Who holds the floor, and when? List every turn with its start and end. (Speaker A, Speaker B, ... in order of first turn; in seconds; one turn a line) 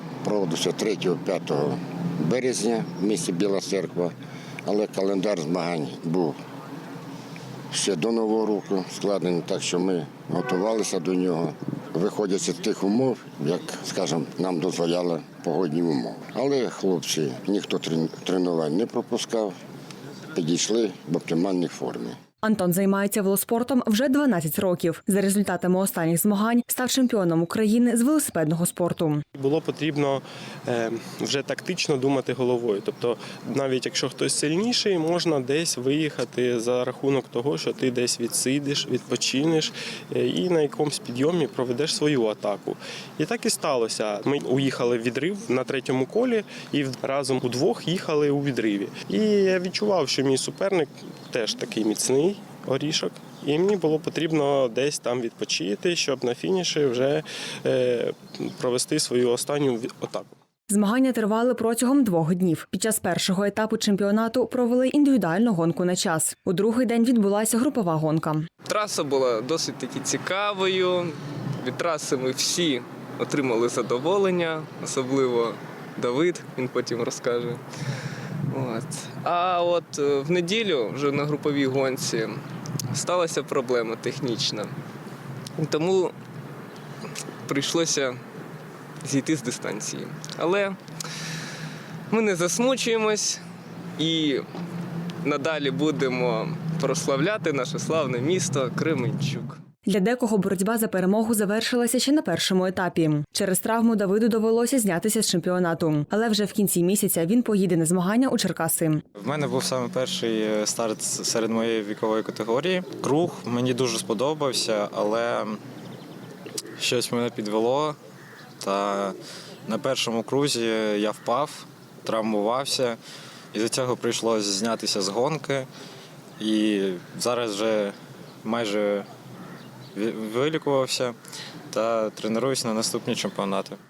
Speaker A: 0.2-4.1
Speaker A: 4.7-6.4
Speaker A: 7.7-19.6
Speaker A: 20.3-22.2
Speaker B: 22.4-29.2
Speaker C: 29.4-60.4
Speaker B: 60.7-68.5
Speaker D: 68.7-77.6
Speaker D: 78.5-84.7
Speaker D: 85.6-86.2
Speaker D: 87.5-88.2
Speaker D: 89.0-90.8
Speaker D: 92.1-93.4
Speaker D: 94.0-94.4
Speaker D: 95.2-99.6
Speaker B: 99.9-109.0
Speaker E: 109.2-115.6
Speaker E: 116.8-118.0
Speaker E: 118.6-119.2
Speaker E: 119.7-123.0
Speaker E: 123.5-125.7
Speaker E: 126.4-129.1
Speaker E: 129.9-131.2
Speaker E: 131.7-133.8